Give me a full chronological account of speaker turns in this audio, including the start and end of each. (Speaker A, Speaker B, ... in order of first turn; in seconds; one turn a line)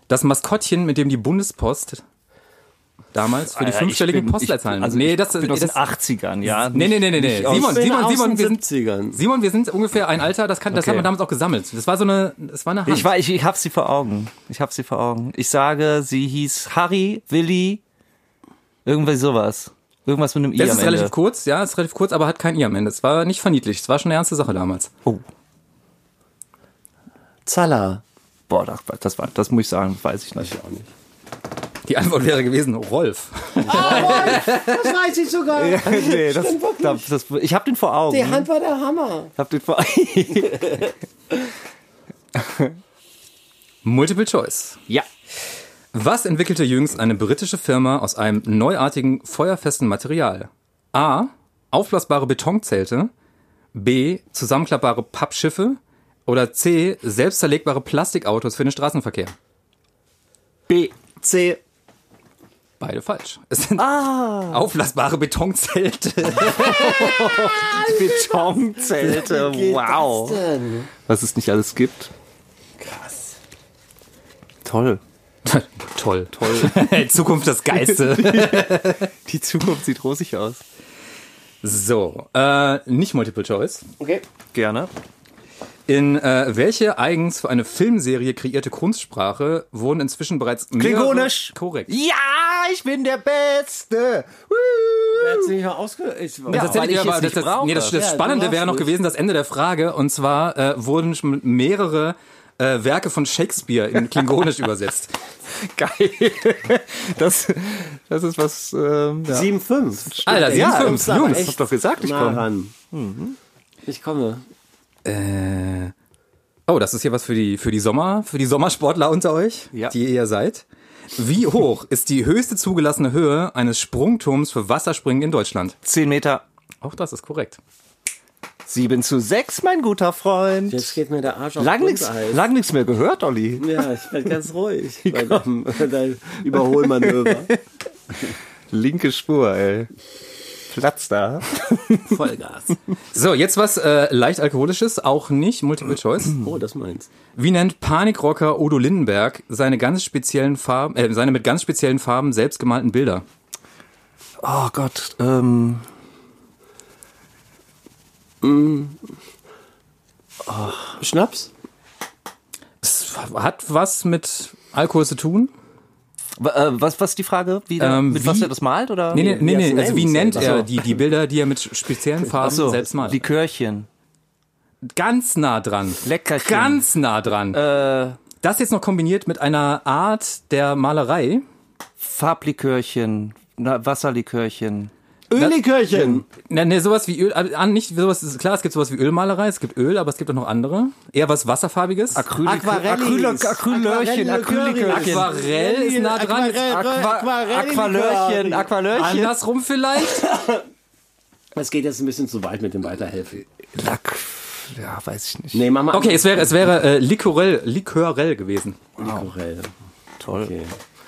Speaker A: 0.1-2.0
Speaker A: 3.1-5.8
Speaker B: 3.5-7.8
Speaker A: 6.5-8.6
Speaker C: 7.4-9.2
Speaker A: 9.1-13.1
Speaker B: 10.7-11.1
Speaker B: 12.9-17.8
Speaker B: 18.9-21.1
Speaker A: 20.6-24.9
Speaker C: 27.5-28.0
Speaker B: 28.5-30.6
Speaker C: 30.4-30.9
Speaker A: 31.9-34.8
Speaker C: 33.6-37.1
Speaker B: 33.7-34.4
Speaker B: 35.5-38.5
Speaker C: 38.1-39.3
Speaker B: 39.4-40.8
Speaker C: 40.5-40.9
Speaker B: 42.4-42.7
Speaker A: 43.8-44.8
Speaker A: 45.9-53.1
Speaker A: 53.7-59.3
Speaker C: 60.7-61.6
Speaker A: 62.8-67.3
Speaker B: 63.8-64.7
Speaker B: 66.4-70.4
Speaker C: 66.8-70.9
Speaker B: 71.1-72.1
Speaker C: 72.8-73.3
Speaker B: 74.7-75.0
Speaker A: 75.5-79.1
Speaker B: 76.4-76.9
Speaker B: 77.9-80.6
Speaker A: 81.6-83.8
Speaker C: 84.0-84.2
Speaker B: 84.5-84.9
Speaker A: 85.9-91.9
Speaker B: 90.8-95.5
Speaker C: 95.2-96.9
Speaker B: 96.5-98.0
Speaker A: 96.5-105.1
Speaker C: 97.9-98.9
Speaker B: 105.5-109.5
Speaker C: 109.3-112.7
Speaker B: 110.1-113.4
Speaker A: 110.2-111.5
Speaker C: 113.8-114.4
Speaker A: 115.0-115.9
Speaker A: 116.7-120.6
Speaker A: 121.2-125.8
Speaker B: 125.8-126.5
Speaker A: 126.8-127.6
Speaker B: 128.7-131.0
Speaker C: 130.7-132.4
Speaker B: 131.6-133.8
Speaker C: 133.6-137.5
Speaker B: 135.1-135.4
Speaker B: 136.8-137.6
Speaker B: 138.7-139.9
Speaker B: 140.7-142.2
Speaker C: 142.1-142.8
Speaker A: 143.1-146.4
Speaker C: 146.4-147.1
Speaker A: 147.3-153.2
Speaker B: 154.4-155.8
Speaker C: 158.4-159.1
Speaker B: 160.5-161.0
Speaker C: 161.0-161.5
Speaker A: 162.8-165.5
Speaker B: 166.4-169.4
Speaker A: 167.8-168.5
Speaker A: 169.1-173.2
Speaker C: 169.2-170.7
Speaker B: 170.4-170.7
Speaker B: 172.4-173.9
Speaker A: 174.9-177.6
Speaker B: 176.0-176.8
Speaker B: 177.5-178.2
Speaker A: 178.4-181.4
Speaker B: 182.0-184.9
Speaker C: 185.3-186.3
Speaker A: 185.4-192.3
Speaker B: 192.2-195.3
Speaker C: 192.4-198.7
Speaker A: 194.9-196.7
Speaker B: 196.7-199.3
Speaker A: 198.9-200.3
Speaker C: 200.0-200.6
Speaker C: 201.6-203.4
Speaker B: 203.7-205.7
Speaker C: 205.5-206.5
Speaker A: 205.9-208.8
Speaker B: 209.0-209.3
Speaker C: 209.0-209.7
Speaker B: 210.2-210.5
Speaker C: 210.3-210.7